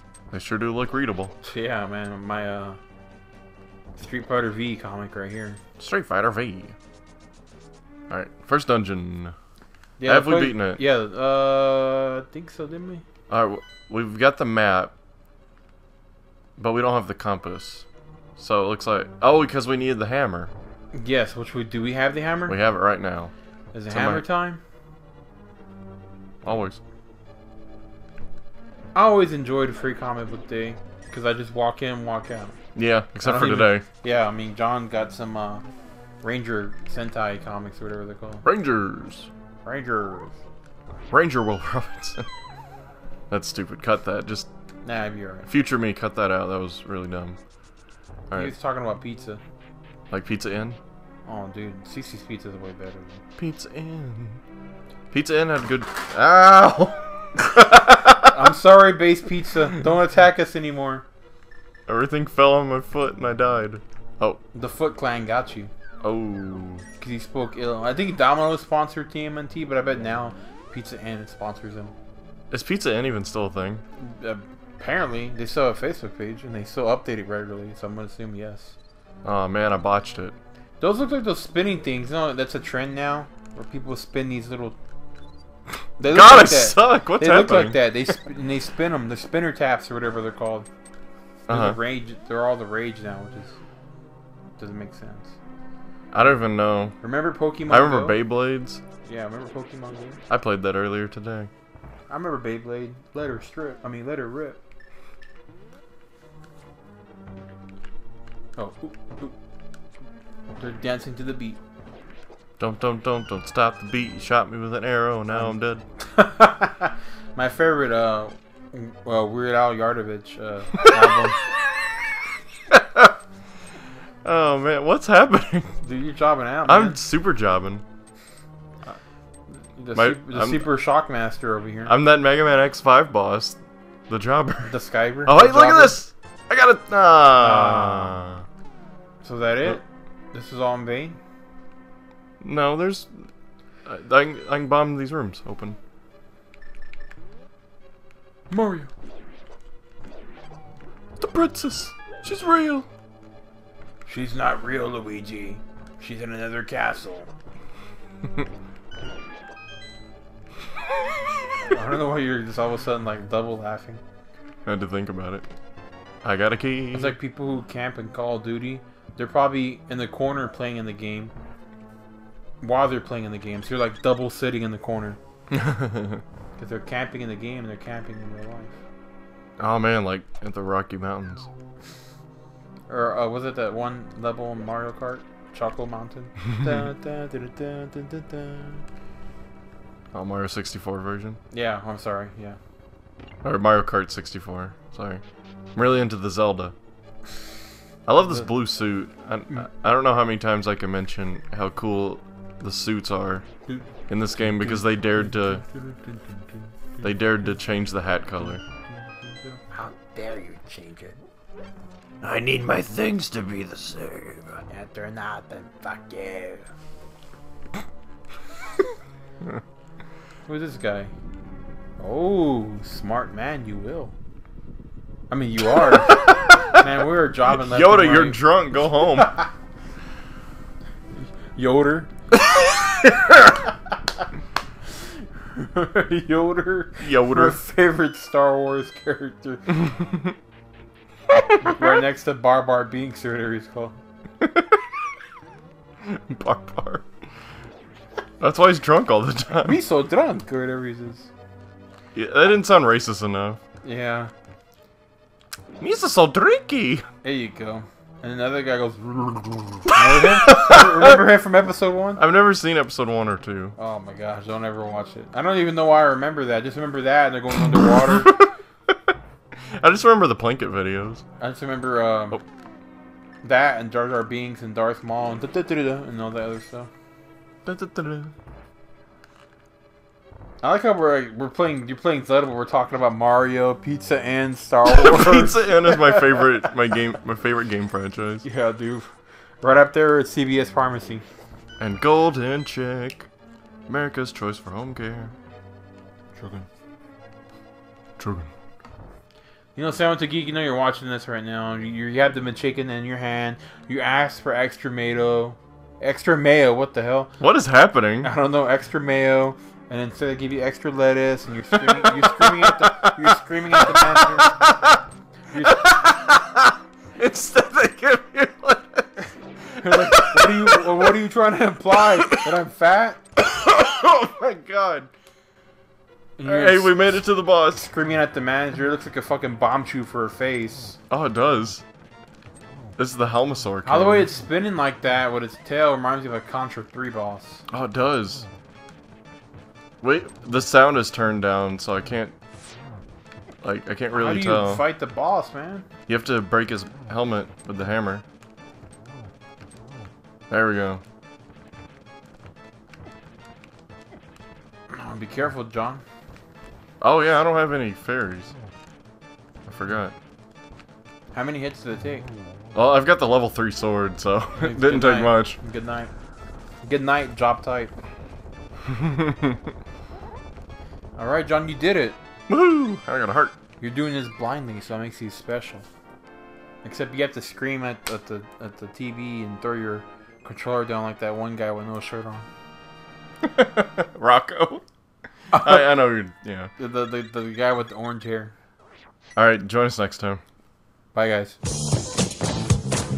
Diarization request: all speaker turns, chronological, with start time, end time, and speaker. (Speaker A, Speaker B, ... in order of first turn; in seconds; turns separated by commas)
Speaker A: 0.3-1.3, Speaker B: 1.4-2.8, Speaker B: 4.0-5.6, Speaker A: 5.8-6.8, Speaker A: 8.1-9.3, Speaker B: 10.0-13.0, Speaker A: 10.0-10.8, Speaker A: 13.3-14.9, Speaker A: 16.6-17.9, Speaker A: 18.4-20.5, Speaker B: 20.9-22.6, Speaker A: 22.5-23.3, Speaker B: 23.7-24.6, Speaker A: 23.9-24.2, Speaker A: 26.4-26.8, Speaker B: 28.9-32.6, Speaker A: 32.8-33.9, Speaker B: 33.2-35.6, Speaker B: 36.2-38.5, Speaker A: 38.5-39.3, Speaker B: 39.6-40.4, Speaker A: 41.1-42.3, Speaker A: 43.3-44.5, Speaker B: 44.8-45.5, Speaker A: 45.5-47.4, Speaker A: 48.3-48.5, Speaker B: 48.3-49.4, Speaker A: 50.1-50.8, Speaker B: 51.2-53.2, Speaker A: 53.4-54.4, Speaker A: 55.1-58.4, Speaker B: 58.2-61.0, Speaker A: 61.9-64.4, Speaker B: 64.5-65.7, Speaker A: 66.0-66.8, Speaker B: 67.0-71.9, Speaker A: 72.5-73.8, Speaker B: 74.0-78.8, Speaker A: 79.2-80.4, Speaker B: 80.8-84.8, Speaker B: 86.0-90.7, Speaker A: 86.1-87.8, Speaker A: 91.5-91.8, Speaker B: 91.5-93.6, Speaker B: 94.6-95.4, Speaker A: 96.1-97.0, Speaker B: 97.0-98.2, Speaker A: 97.7-98.8, Speaker B: 99.0-100.2, Speaker A: 100.3-101.5, Speaker B: 102.1-104.6, Speaker B: 108.6-109.3, Speaker B: 110.5-111.6, Speaker A: 112.6-115.8, Speaker B: 115.3-121.4, Speaker A: 122.7-123.1, Speaker A: 124.2-125.8, Speaker B: 125.8-127.0, Speaker A: 126.7-127.8, Speaker B: 129.8-131.9, Speaker A: 129.9-130.7, Speaker A: 131.9-134.8, Speaker B: 134.7-136.0, Speaker A: 135.3-138.4, Speaker B: 137.3-138.2, Speaker B: 139.2-141.2, Speaker A: 142.4-143.1, Speaker A: 143.8-145.8, Speaker B: 148.5-148.9, Speaker A: 151.2-152.9, Speaker B: 154.1-157.3, Speaker B: 161.7-164.0, Speaker A: 164.7-165.5, Speaker A: 166.2-167.2, Speaker B: 166.9-171.3, Speaker B: 172.6-175.2, Speaker A: 175.5-176.2, Speaker B: 176.6-178.8, Speaker A: 179.6-181.5, Speaker B: 182.9-188.8, Speaker A: 190.1-191.4, Speaker B: 191.5-192.6, Speaker A: 193.4-195.2, Speaker A: 195.8-196.7, Speaker A: 198.1-203.4, Speaker A: 204.1-205.6, Speaker B: 204.4-204.8, Speaker B: 205.7-206.2, Speaker A: 207.0-208.6, Speaker B: 208.9-211.2, Speaker A: 212.2-214.6, Speaker B: 214.7-216.7, Speaker B: 220.5-221.1, Speaker B: 222.0-224.2, Speaker B: 225.3-228.4, Speaker A: 227.5-229.3, Speaker B: 229.1-229.4, Speaker B: 231.2-232.1, Speaker B: 235.4-239.8, Speaker A: 237.0-237.6, Speaker A: 239.9-240.3, Speaker B: 241.6-244.0, Speaker A: 244.4-244.8, Speaker A: 246.0-247.1, Speaker A: 248.4-249.8, Speaker B: 249.6-251.3, Speaker A: 252.2-253.6, Speaker B: 253.8-254.3, Speaker A: 255.8-257.1, Speaker B: 257.2-262.2, Speaker A: 260.3-261.2, Speaker A: 262.2-263.8, Speaker B: 263.8-268.4, Speaker A: 268.0-269.1, Speaker A: 269.8-271.2, Speaker B: 271.4-272.4, Speaker B: 273.4-276.9, Speaker A: 277.6-278.3, Speaker B: 280.6-286.5, Speaker A: 284.9-288.5, Speaker B: 288.4-291.2, Speaker A: 291.8-293.3, Speaker A: 293.9-295.3, Speaker B: 296.4-296.7, Speaker A: 298.2-298.5, Speaker B: 299.8-307.3, Speaker A: 307.4-308.3, Speaker B: 308.2-314.6, Speaker A: 311.8-315.0, Speaker B: 315.5-315.8, Speaker A: 315.6-319.2, Speaker A: 319.7-321.1, Speaker B: 319.8-323.2, Speaker A: 322.0-322.5, Speaker A: 323.4-325.1, Speaker B: 326.4-331.0, Speaker A: 326.4-327.9, Speaker A: 331.1-331.8, Speaker A: 333.0-334.3, Speaker B: 333.8-337.6, Speaker A: 337.7-338.5, Speaker A: 340.0-342.4, Speaker A: 343.6-344.8, Speaker B: 344.1-345.9, Speaker A: 346.1-348.2, Speaker A: 350.5-351.0, Speaker B: 354.9-356.0, Speaker A: 357.0-358.6, Speaker A: 359.7-360.1, Speaker B: 361.3-362.3, Speaker A: 362.7-365.6, Speaker B: 364.6-366.1, Speaker B: 366.8-367.9, Speaker A: 368.9-369.6, Speaker B: 371.2-372.2, Speaker A: 372.5-373.6, Speaker B: 373.8-375.9, Speaker B: 376.8-382.5, Speaker A: 383.4-384.8, Speaker B: 385.5-385.9, Speaker A: 385.5-386.7, Speaker B: 386.8-388.5, Speaker A: 389.4-390.4, Speaker B: 391.1-391.6